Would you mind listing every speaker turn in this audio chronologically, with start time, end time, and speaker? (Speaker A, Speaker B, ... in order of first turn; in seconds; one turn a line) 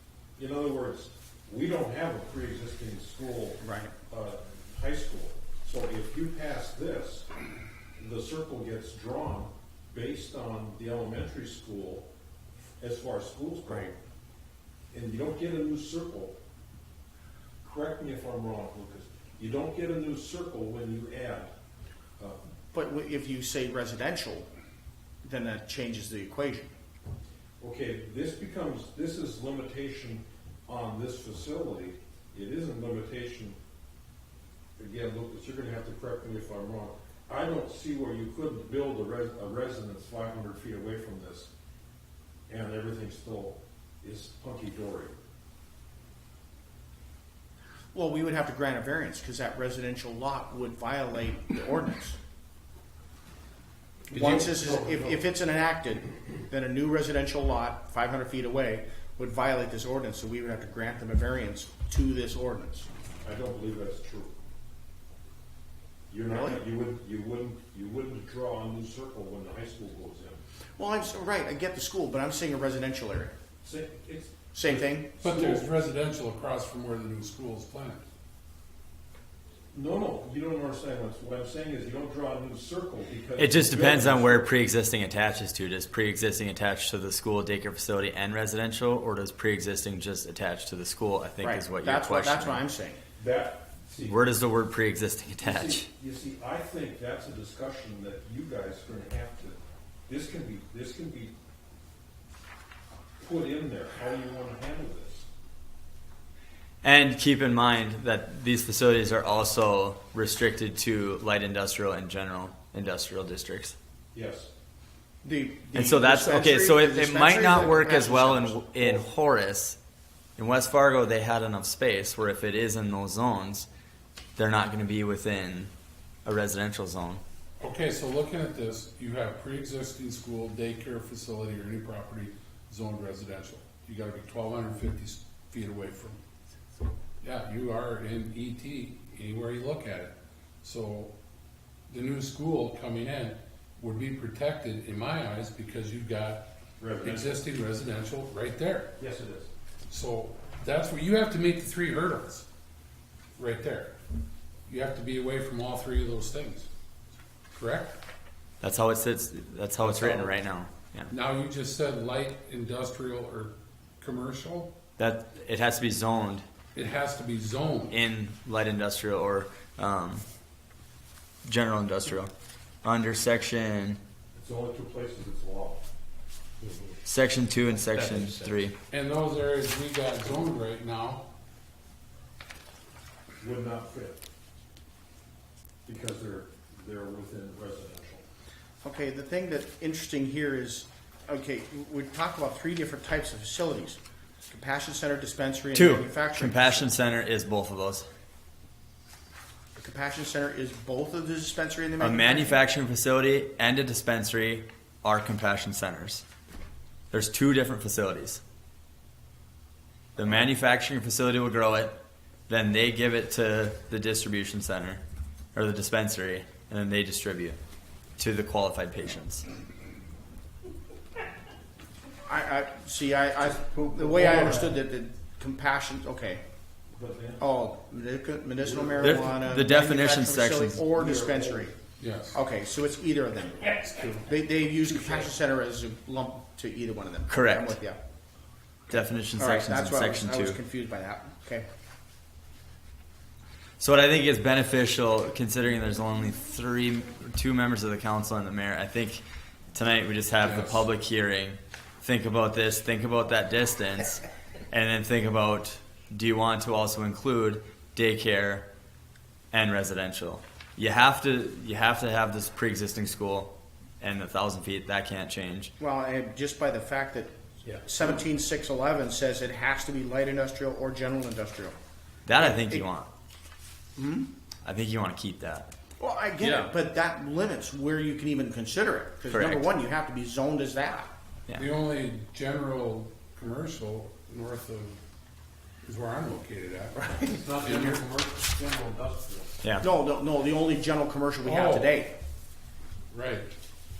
Speaker A: 0.4-7.3
Speaker B: 3.6-3.9
Speaker A: 8.0-12.1
Speaker A: 12.8-13.9
Speaker A: 14.9-16.4
Speaker A: 17.6-21.5
Speaker B: 22.7-24.5
Speaker B: 25.2-26.7
Speaker A: 27.6-33.6
Speaker A: 34.8-41.5
Speaker A: 42.5-45.2
Speaker B: 47.9-52.2
Speaker A: 54.1-55.2
Speaker B: 54.1-62.9
Speaker A: 63.2-64.3
Speaker A: 66.1-70.4
Speaker B: 66.3-66.6
Speaker B: 70.8-73.3
Speaker A: 73.6-75.6
Speaker B: 74.5-75.6
Speaker C: 75.2-78.0
Speaker A: 79.7-84.5
Speaker D: 83.4-92.6
Speaker B: 91.4-93.0
Speaker A: 93.2-94.2
Speaker D: 94.0-95.9
Speaker A: 95.4-101.3
Speaker A: 103.2-105.3
Speaker D: 106.8-113.8
Speaker A: 114.1-114.5
Speaker B: 115.2-119.1
Speaker D: 115.8-119.8
Speaker D: 120.4-123.7
Speaker D: 124.4-125.7
Speaker D: 126.2-127.2
Speaker C: 127.6-136.2
Speaker C: 137.2-141.1
Speaker C: 141.9-146.5
Speaker A: 146.8-147.4
Speaker C: 147.0-148.9
Speaker A: 149.0-149.5
Speaker C: 149.9-152.5
Speaker C: 153.4-154.0
Speaker C: 154.7-156.7
Speaker C: 157.5-158.0
Speaker D: 158.6-161.1
Speaker C: 159.8-160.3
Speaker C: 161.1-164.7
Speaker D: 165.0-166.4
Speaker C: 166.7-167.9
Speaker D: 167.9-170.2
Speaker D: 171.4-172.3
Speaker D: 172.8-174.0
Speaker A: 174.3-175.8
Speaker D: 177.1-178.8
Speaker C: 178.9-181.3
Speaker A: 183.4-184.2
Speaker A: 185.9-188.2
Speaker B: 188.8-196.9
Speaker D: 195.7-198.1
Speaker B: 199.8-202.6
Speaker D: 202.0-206.2
Speaker D: 207.1-208.4
Speaker D: 210.2-212.0
Speaker D: 212.5-215.0
Speaker D: 215.5-217.6
Speaker D: 218.2-219.4
Speaker B: 222.3-226.4
Speaker A: 223.6-224.8
Speaker A: 226.9-227.4
Speaker B: 227.4-231.7
Speaker A: 228.6-229.3
Speaker D: 229.0-230.8
Speaker A: 230.9-231.7
Speaker C: 232.0-232.4
Speaker B: 232.3-238.0
Speaker D: 237.3-237.8
Speaker D: 238.9-240.6
Speaker B: 239.4-241.7
Speaker D: 243.8-258.7
Speaker C: 250.4-250.8
Speaker D: 259.5-265.7
Speaker B: 265.8-271.8
Speaker D: 272.3-273.1
Speaker B: 272.4-272.9
Speaker B: 274.0-274.3
Speaker D: 274.6-275.7
Speaker B: 276.0-281.1
Speaker C: 276.4-276.7
Speaker D: 279.3-279.7
Speaker C: 281.6-285.0
Speaker C: 285.8-288.0
Speaker A: 287.3-289.6
Speaker B: 289.8-292.1
Speaker C: 291.4-291.9
Speaker C: 293.1-293.5